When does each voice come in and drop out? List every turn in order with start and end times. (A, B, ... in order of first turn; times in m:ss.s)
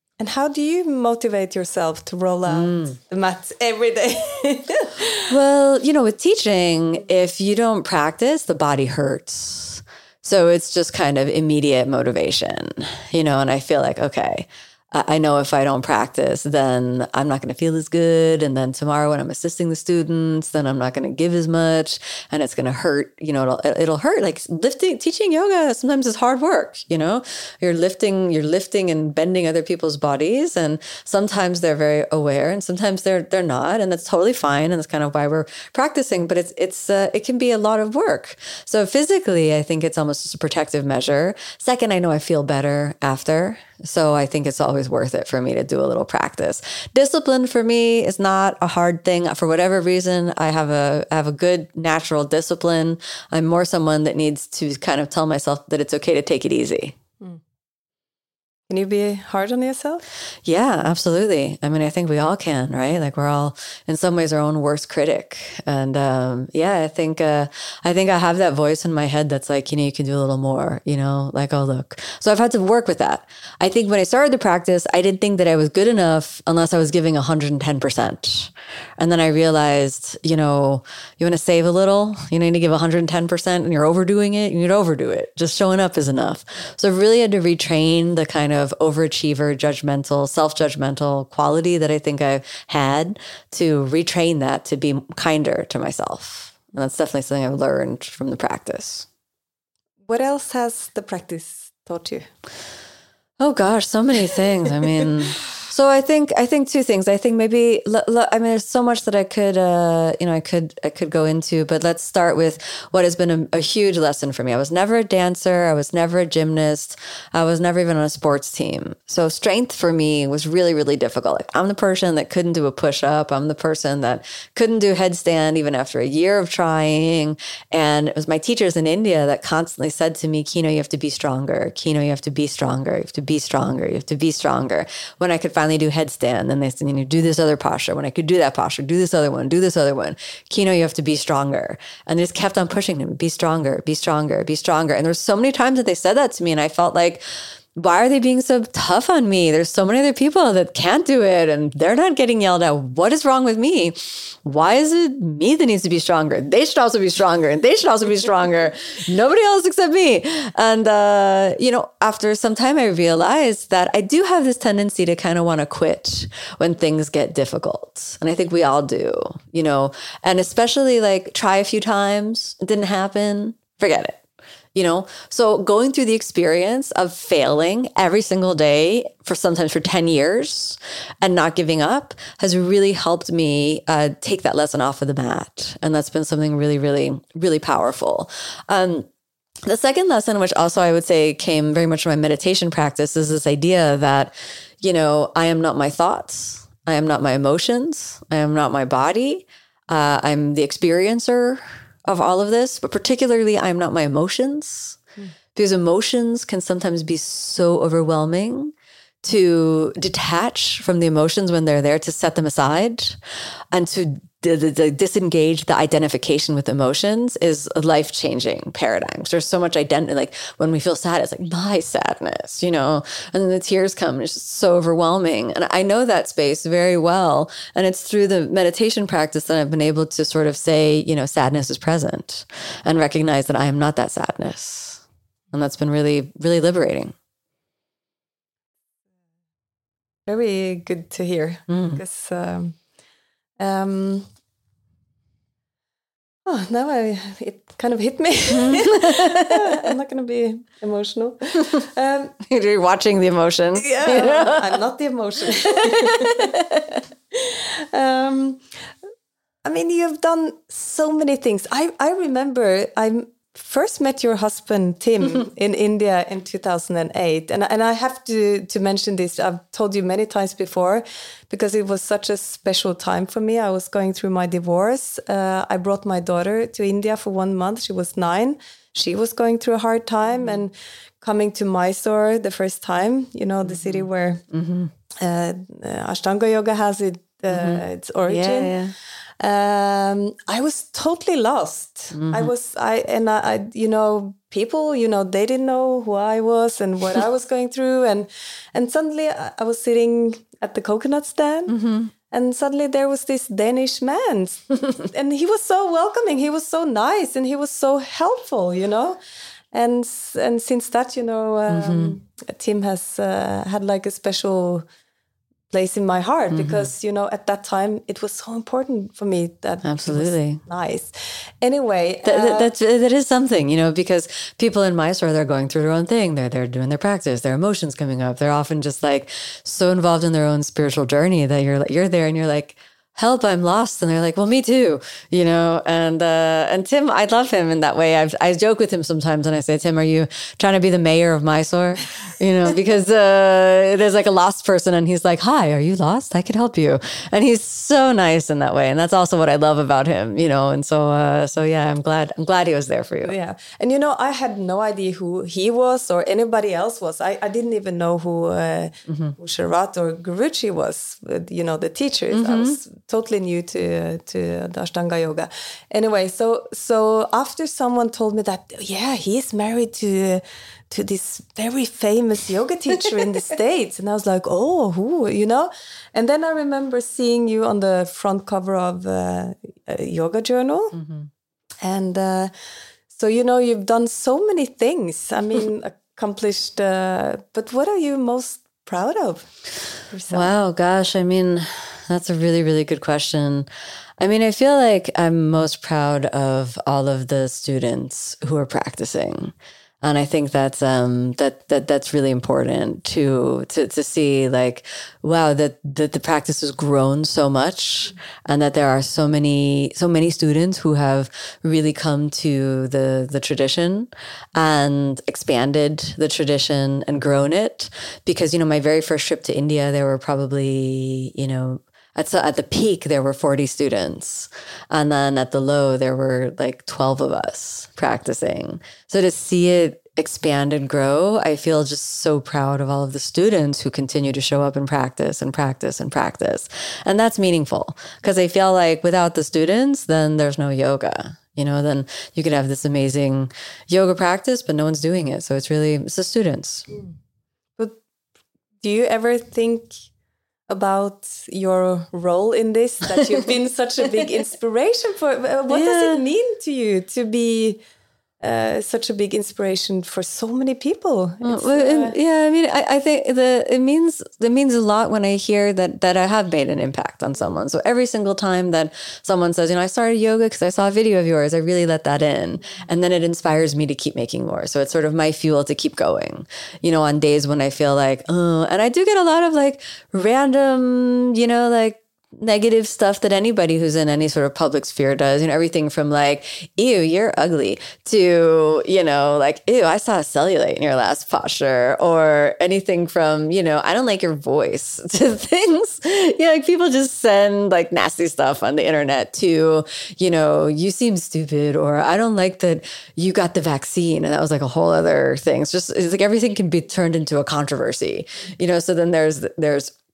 0:00.2-0:05.3 A
0:02.5-0:02.9 B
0:05.3-0:57.0 B
0:58.7-1:00.0 A
1:00.4-1:39.1 B
1:40.0-1:42.3 A
1:43.4-2:27.2 B
2:27.7-2:54.2 B
2:54.7-3:09.1 B
3:09.6-3:25.0 B
3:25.5-3:33.2 B
3:33.7-3:57.1 B
4:00.3-4:02.8 A
4:01.7-4:02.0 B
4:03.6-4:04.3 A
4:06.4-4:12.3 A
4:08.5-4:09.7 B
4:12.4-4:14.7 B
4:13.8-4:16.6 A
4:15.6-4:17.0 B
4:17.3-4:18.6 A
4:19.6-4:44.4 A
4:43.6-4:44.9 B
4:45.2-4:48.7 A
4:47.5-4:48.9 B
4:49.4-5:01.8 A
4:52.1-4:52.5 B
5:01.7-5:02.1 B
5:02.3-5:09.2 A
5:09.7-5:14.8 A
5:11.7-5:12.2 B
5:15.7-5:22.7 A
5:16.5-5:16.9 B
5:19.8-5:20.6 B
5:22.2-5:53.3 B
5:53.2-6:21.0 A
5:59.1-5:59.3 B
6:02.3-6:02.8 B
6:20.9-6:21.3 B
6:21.8-6:22.5 A
6:23.1-6:29.5 A
6:30.1-6:30.5 A
6:30.3-6:33.7 B
6:34.2-7:26.9 B
7:28.8-7:30.0 A
7:30.7-7:37.8 A
7:35.7-7:36.2 B
7:38.4-7:42.2 A
7:41.4-8:29.9 B